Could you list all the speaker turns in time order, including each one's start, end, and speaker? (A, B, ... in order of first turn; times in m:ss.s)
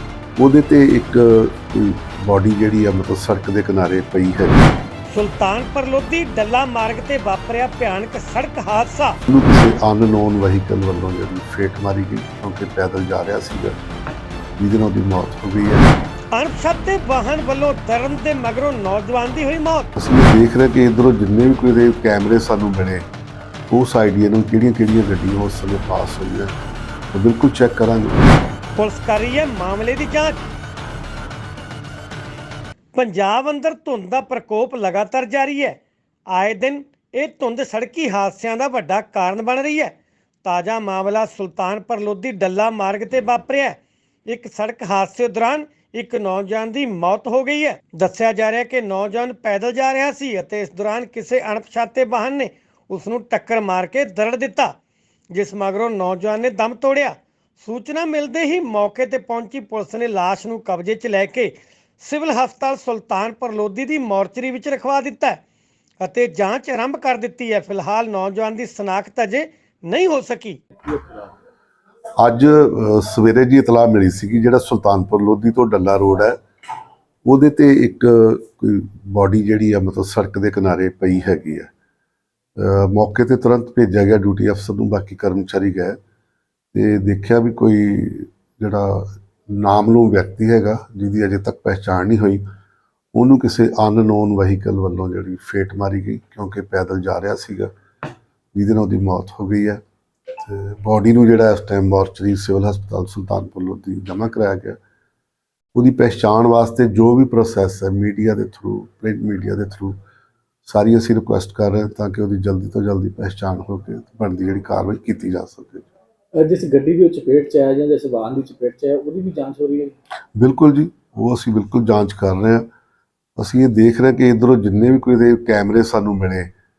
0:00.4-0:04.6 A
0:05.1-0:09.2 B
0:09.3-0:13.7 A
0:14.6-0:15.8 A
0:16.3-0:19.9 B
0:20.0-0:23.0 A
0:23.7-0:26.5 A
0:27.1-0:28.2 A
0:28.8-0:30.4 B
0:32.9-0:35.8 B
0:36.3-0:54.7 B
0:55.3-1:05.4 B
1:06.0-1:10.6 B
1:12.2-1:16.4 A
1:17.2-1:21.7 A
1:22.6-1:26.0 A
1:26.7-1:32.4 A
1:33.1-1:37.7 A
1:38.5-1:39.8 A
1:40.4-1:44.8 A
1:45.7-1:50.0 A
1:50.6-1:55.9 A
1:56.4-1:59.9 C
2:00.4-2:02.7 A
2:03.4-2:06.5 A